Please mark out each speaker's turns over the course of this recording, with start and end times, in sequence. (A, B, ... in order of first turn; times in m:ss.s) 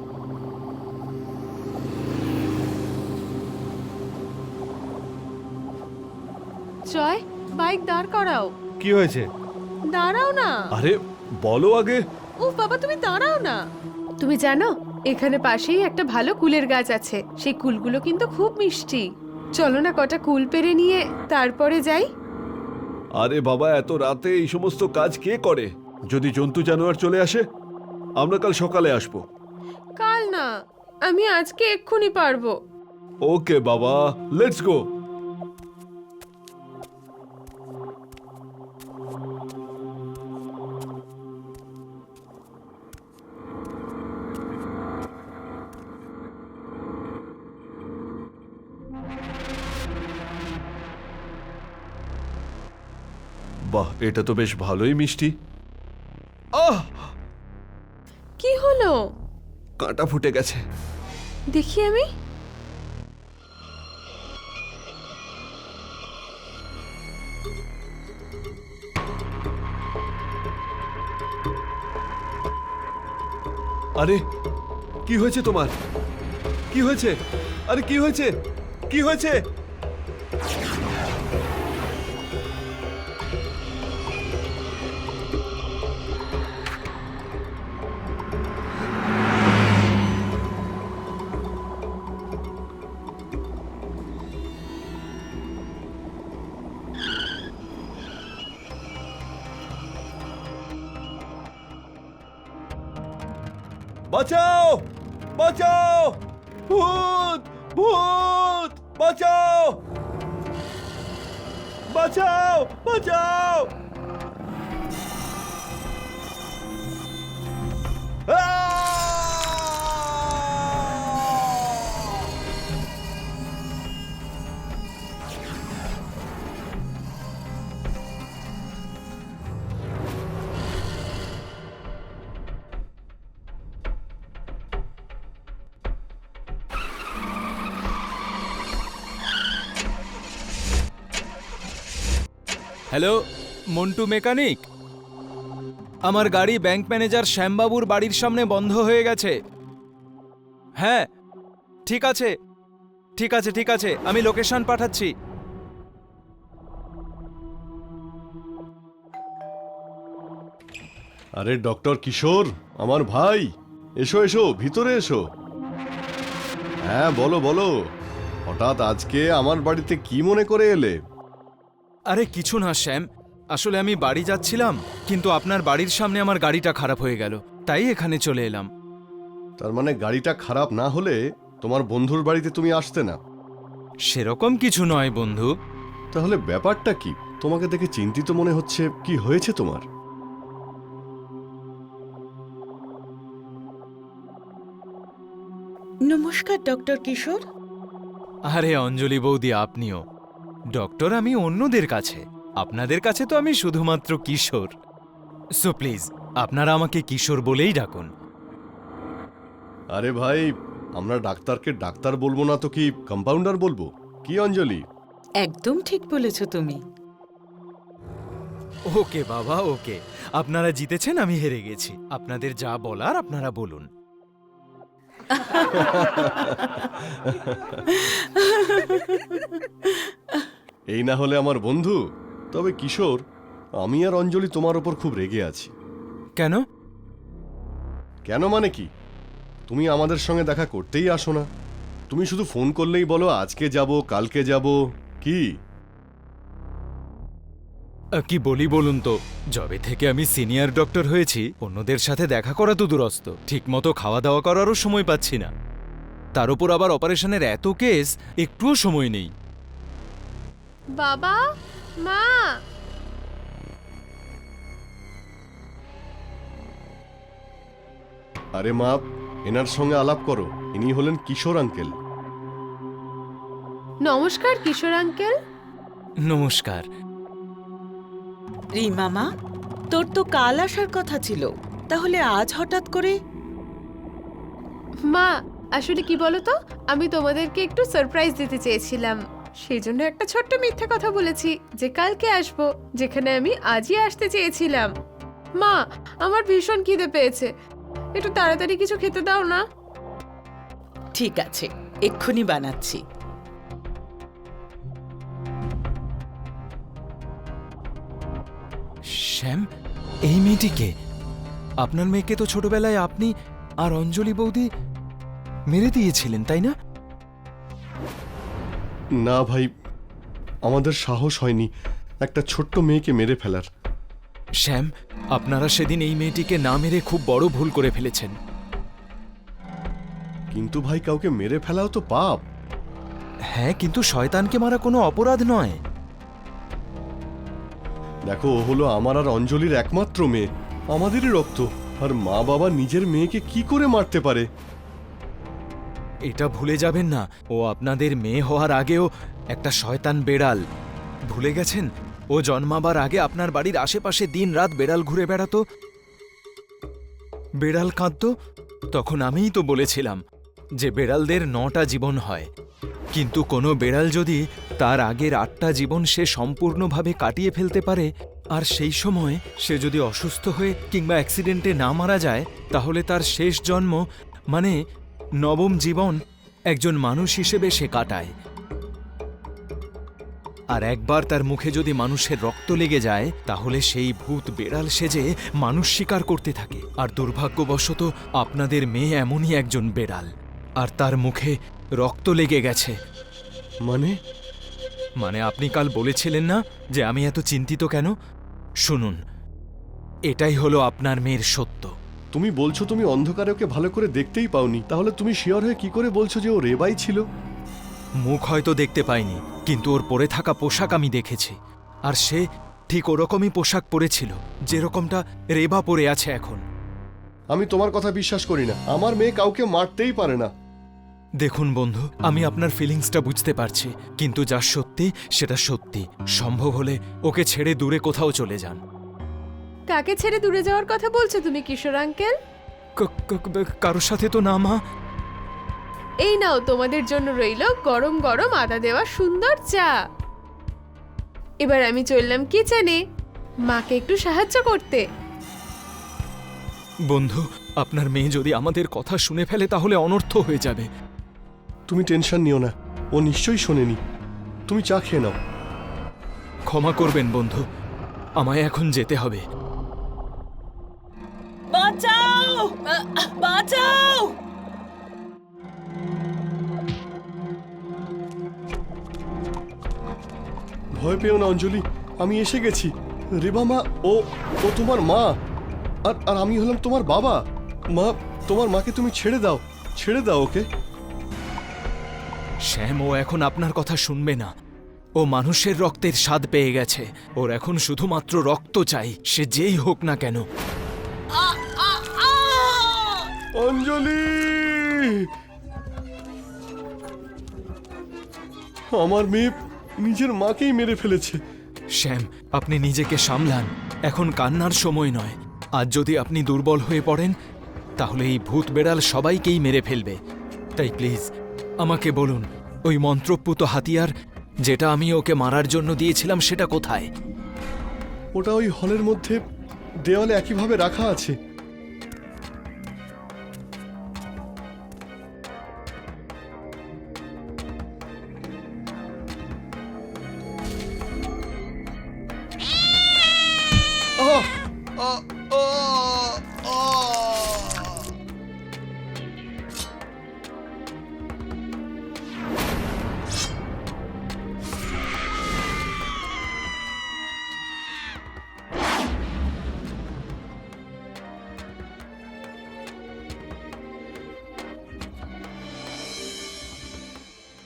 0:06.9-0:08.5 A
0:08.8-0:09.2 B
0:09.9-0:10.5 A
0:10.7-0:12.0 B
0:12.4-0:13.6 A
0:14.2-0:19.0 A
0:19.6-0:22.0 A
0:23.2-0:27.4 B
0:28.2-0:29.2 B
0:30.0-0:30.5 A
0:31.0-0:32.5 A
0:33.3-0:34.8 B
0:53.7-0:55.3 B
0:56.6-0:56.8 B
0:58.4-0:59.0 A
0:59.8-1:00.6 B
1:01.5-1:02.0 A
1:15.1-1:15.7 B
1:16.7-1:17.1 B
1:17.7-1:18.3 B
1:18.9-1:19.4 B
1:44.1-1:49.8 B
1:51.9-1:53.7 B
1:58.3-2:01.5 B
2:23.7-2:24.6 C
2:26.0-2:29.3 C
2:30.8-2:31.1 C
2:31.8-2:32.3 C
2:33.2-2:35.1 C
2:41.4-2:43.4 D
2:44.0-2:45.2 D
2:46.9-2:47.7 D
2:48.5-2:50.9 D
2:52.1-2:53.0 C
2:53.5-2:58.7 C
2:59.6-3:03.2 D
3:04.1-3:05.5 C
3:06.1-3:09.8 D
3:16.1-3:17.4 E
3:18.5-3:20.0 C
3:20.7-3:24.7 C
3:25.6-3:28.1 C
3:29.9-3:30.5 D
3:31.0-3:34.8 D
3:35.4-3:36.8 E
3:38.9-3:43.9 C
3:45.8-3:47.8 D
3:50.9-3:52.0 D
3:52.5-3:53.2 D
3:53.8-3:55.7 D
3:56.4-3:56.6 C
3:58.3-3:58.8 D
3:59.7-4:01.4 D
4:02.1-4:05.4 D
4:08.2-4:15.5 C
4:16.3-4:19.3 C
4:21.0-4:21.4 A
4:22.0-4:22.5 A
4:28.6-4:31.9 D
4:34.0-4:35.3 A
4:36.2-4:36.9 C
4:38.8-4:39.2 E
4:39.9-4:43.1 E
4:45.1-4:54.9 A
4:55.6-4:57.5 A
4:58.2-4:59.6 A
5:01.2-5:03.0 E
5:09.2-5:09.6 C
5:10.3-5:10.9 C
5:11.8-5:13.3 C
5:13.8-5:14.6 C
5:15.7-5:16.7 C
5:19.2-5:19.6 D
5:20.7-5:21.7 D
5:22.2-5:23.6 D
5:24.6-5:28.3 C
5:30.5-5:32.4 D
5:33.5-5:35.8 C
5:38.3-5:44.4 D
5:46.3-5:50.6 C
5:51.3-5:55.6 C
5:57.6-5:58.3 C
5:58.9-6:00.2 C
6:00.8-6:02.5 C
6:03.1-6:14.7 C
6:15.4-6:16.1 C
6:16.7-6:18.3 C
6:20.7-6:32.9 C
6:33.8-6:34.1 D
6:35.2-6:38.1 C
6:38.8-6:39.2 C
6:40.3-6:41.9 C
6:42.3-6:47.2 D
6:48.2-6:51.6 C
6:52.1-6:56.6 C
6:57.5-7:00.5 D
7:01.4-7:08.8 C
7:09.9-7:12.3 A
7:13.0-7:14.8 C
7:16.2-7:19.9 A
7:21.6-7:23.0 A
7:23.7-7:25.0 A
7:27.1-7:30.9 C
7:31.9-7:34.0 D
7:34.7-7:35.3 D
7:36.7-7:37.6 C
7:38.4-7:39.4 C
7:41.7-7:44.3 E
7:51.0-7:52.9 D
7:53.4-7:55.3 D
7:56.1-7:57.4 D
7:57.9-8:00.6 D
8:02.6-8:04.5 C
8:05.2-8:10.4 C
8:11.4-8:15.0 D
8:18.9-8:19.5 D
8:20.0-8:21.4 D
8:22.0-8:27.3 C
8:28.0-8:30.2 C
8:30.8-8:31.2 C
8:31.8-8:34.1 C
8:34.6-8:37.1 C
8:38.4-8:39.4 D
8:40.1-8:41.3 D
8:54.2-8:57.6 D